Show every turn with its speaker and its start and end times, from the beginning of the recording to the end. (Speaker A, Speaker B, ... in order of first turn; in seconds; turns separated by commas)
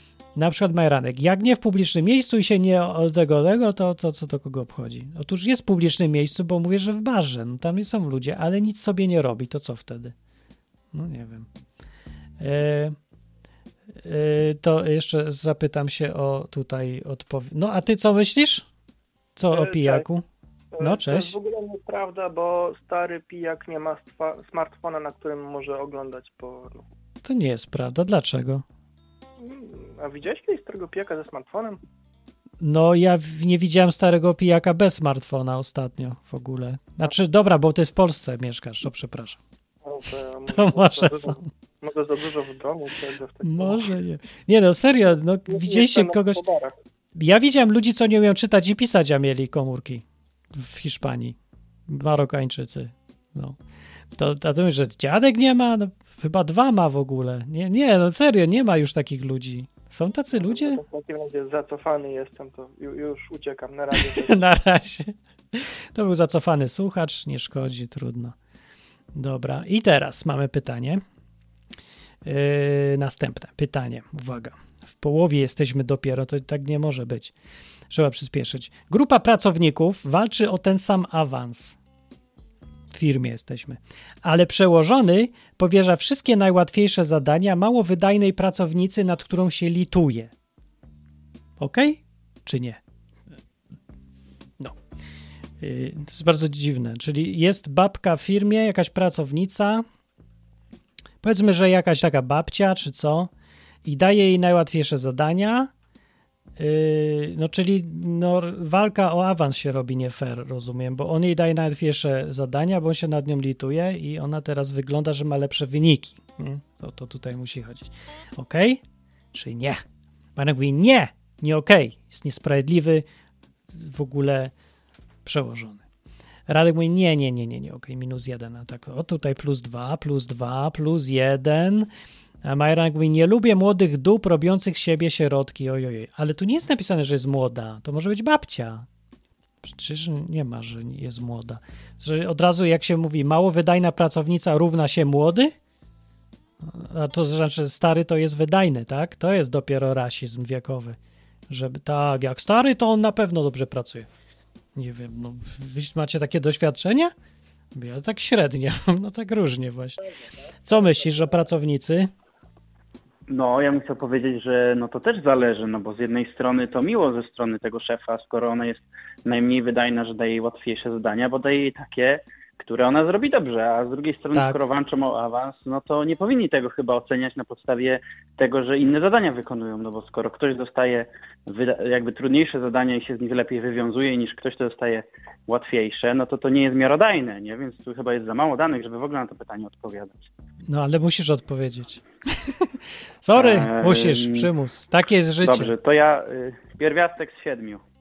Speaker A: 0.4-10.1, Speaker A: 10.9-11.5, Speaker A: 12.4-13.0, Speaker A: 14.1-18.7, Speaker A: 19.4-20.2, Speaker B: 19.5-20.0, Speaker B: 20.8-26.8, Speaker A: 20.8-21.4, Speaker A: 27.2-28.6, Speaker B: 29.4-31.8, Speaker A: 32.6-39.4, Speaker B: 39.8-43.9, Speaker A: 40.5-41.5, Speaker A: 43.4-46.4, Speaker B: 45.5-46.7, Speaker A: 47.1-51.4, Speaker A: 51.9-53.6, Speaker A: 54.2-60.8, Speaker B: 60.4-64.4, Speaker A: 63.9-68.3, Speaker A: 69.2-71.0, Speaker A: 72.2-77.3, Speaker A: 77.9-81.8, Speaker A: 82.9-90.3, Speaker A: 91.6-92.8, Speaker A: 95.6-99.8, Speaker A: 101.2-103.3, Speaker A: 103.8-105.7, Speaker A: 106.6-118.8, Speaker A: 119.3-119.8, Speaker A: 120.4-123.0, Speaker A: 123.7-124.5, Speaker A: 125.2-125.8, Speaker A: 126.5-131.9, Speaker A: 132.4-138.8, Speaker A: 139.6-145.5, Speaker A: 146.6-151.0, Speaker A: 151.5-154.1, Speaker A: 154.8-157.1, Speaker A: 157.8-160.0, Speaker A: 160.6-162.1, Speaker C: 163.3-190.3, Speaker A: 190.7-192.5, Speaker A: 193.2-195.7, Speaker C: 193.3-194.5, Speaker C: 195.4-197.8